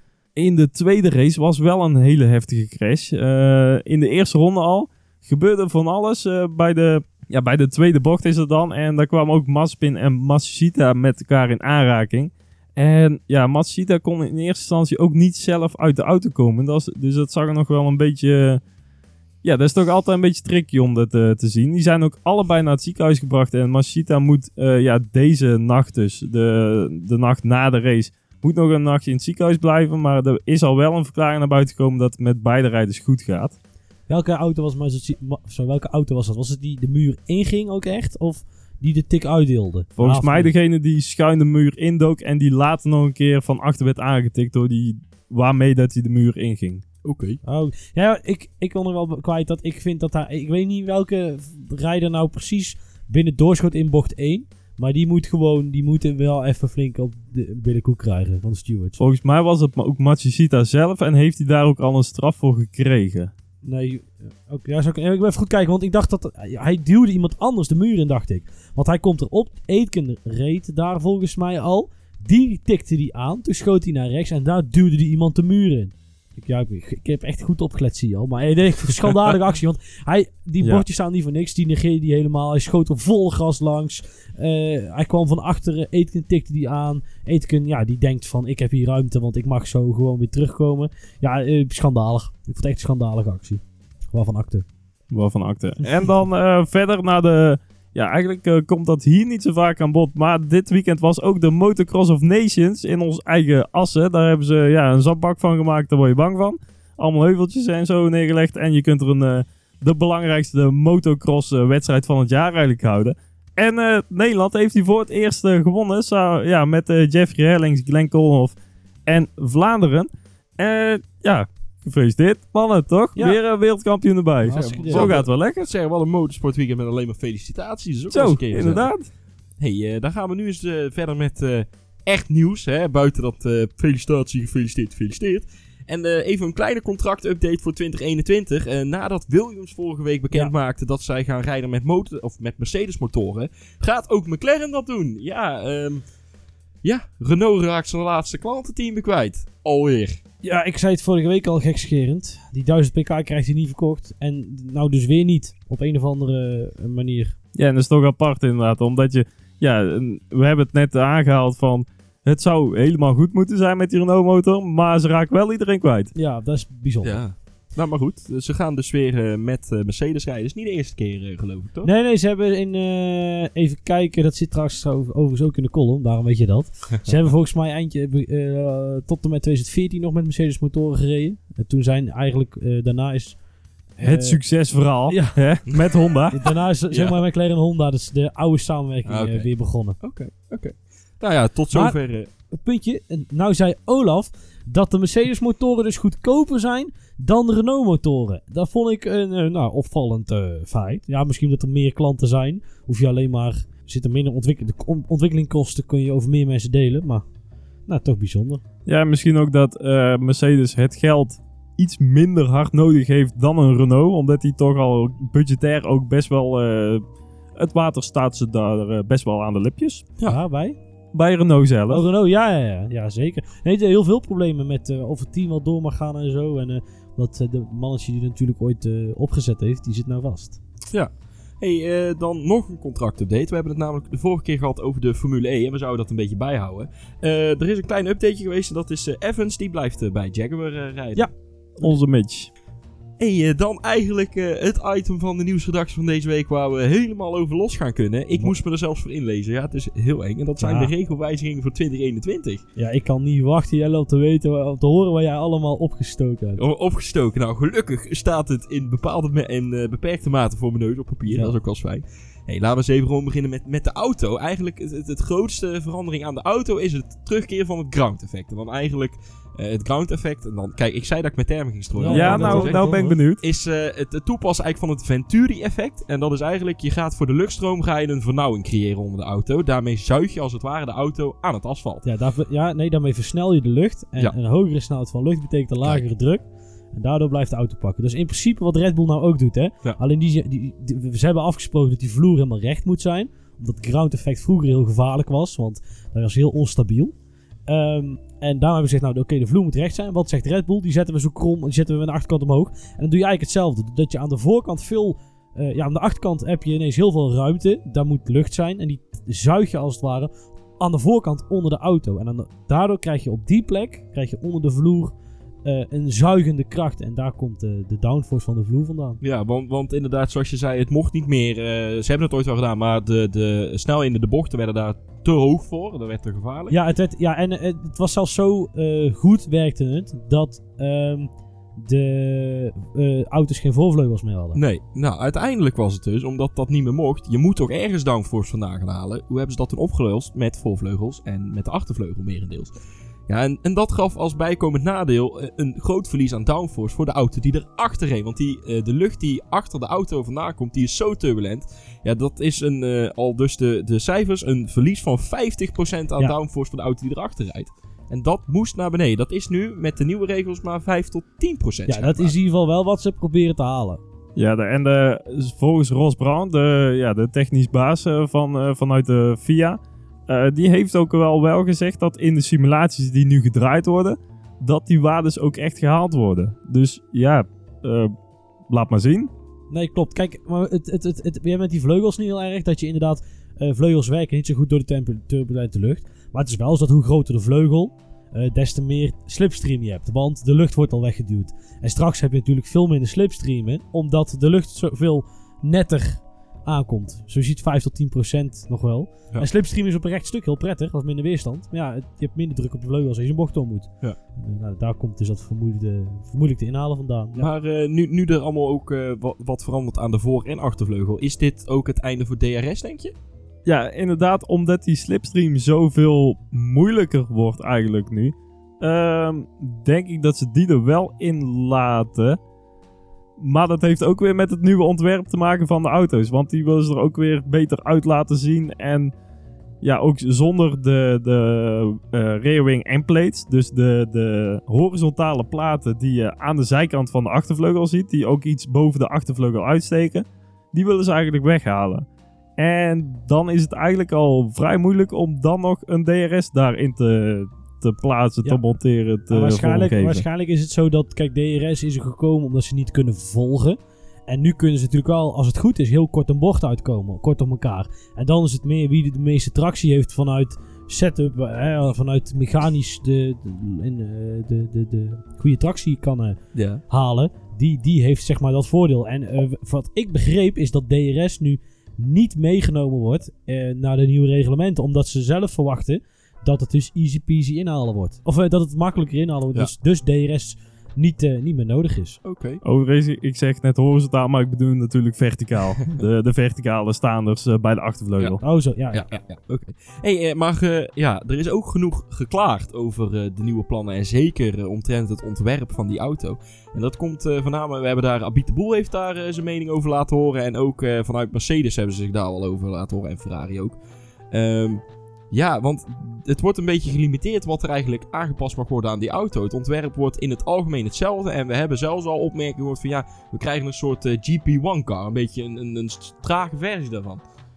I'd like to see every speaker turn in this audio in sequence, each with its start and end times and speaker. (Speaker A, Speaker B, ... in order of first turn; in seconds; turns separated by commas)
Speaker A: 0.3-18.6, Speaker A: 19.4-33.5, Speaker B: 34.1-40.5, Speaker A: 40.0-46.8, Speaker C: 47.0-47.4, Speaker B: 47.4-59.0, Speaker A: 59.0-63.3, Speaker B: 63.6-94.7, Speaker A: 95.1-118.5, Speaker A: 119.1-125.7, Speaker B: 124.4-125.2, Speaker C: 124.5-128.9, Speaker A: 128.1-129.1, Speaker C: 129.6-146.0, Speaker C: 146.8-150.2, Speaker B: 150.4-157.3, Speaker A: 157.5-166.1, Speaker B: 166.1-167.2, Speaker C: 167.0-171.9, Speaker B: 171.8-183.4, Speaker B: 184.0-184.4, Speaker A: 184.0-186.4, Speaker B: 185.1-189.9, Speaker C: 186.9-187.2, Speaker C: 189.1-189.5, Speaker C: 190.0-192.3, Speaker B: 192.5-207.2, Speaker B: 207.9-208.6, Speaker A: 208.8-217.0, Speaker A: 217.6-220.0, Speaker B: 220.2-220.8, Speaker A: 221.1-222.0, Speaker B: 221.9-230.6, Speaker C: 230.9-241.3, Speaker A: 241.8-242.5, Speaker C: 243.2-252.6, Speaker B: 250.6-250.9, Speaker B: 252.8-256.6, Speaker C: 256.6-282.0, Speaker B: 271.9-273.2, Speaker A: 272.1-273.4, Speaker B: 282.0-297.1, Speaker B: 297.7-319.2, Speaker C: 319.2-326.8, Speaker B: 326.7-334.6, Speaker C: 334.5-342.7, Speaker C: 343.3-362.3, Speaker B: 361.9-364.0, Speaker A: 364.4-378.1, Speaker A: 378.7-379.3, Speaker B: 379.7-407.5, Speaker C: 407.4-413.1, Speaker A: 413.6-422.4, Speaker A: 423.4-429.1, Speaker A: 429.8-442.1, Speaker A: 442.6-450.2, Speaker B: 449.3-466.4, Speaker C: 466.5-466.8, Speaker B: 466.9-482.2, Speaker C: 482.2-482.6, Speaker A: 482.6-488.4, Speaker B: 488.4-489.1, Speaker C: 488.9-503.8, Speaker C: 504.3-517.2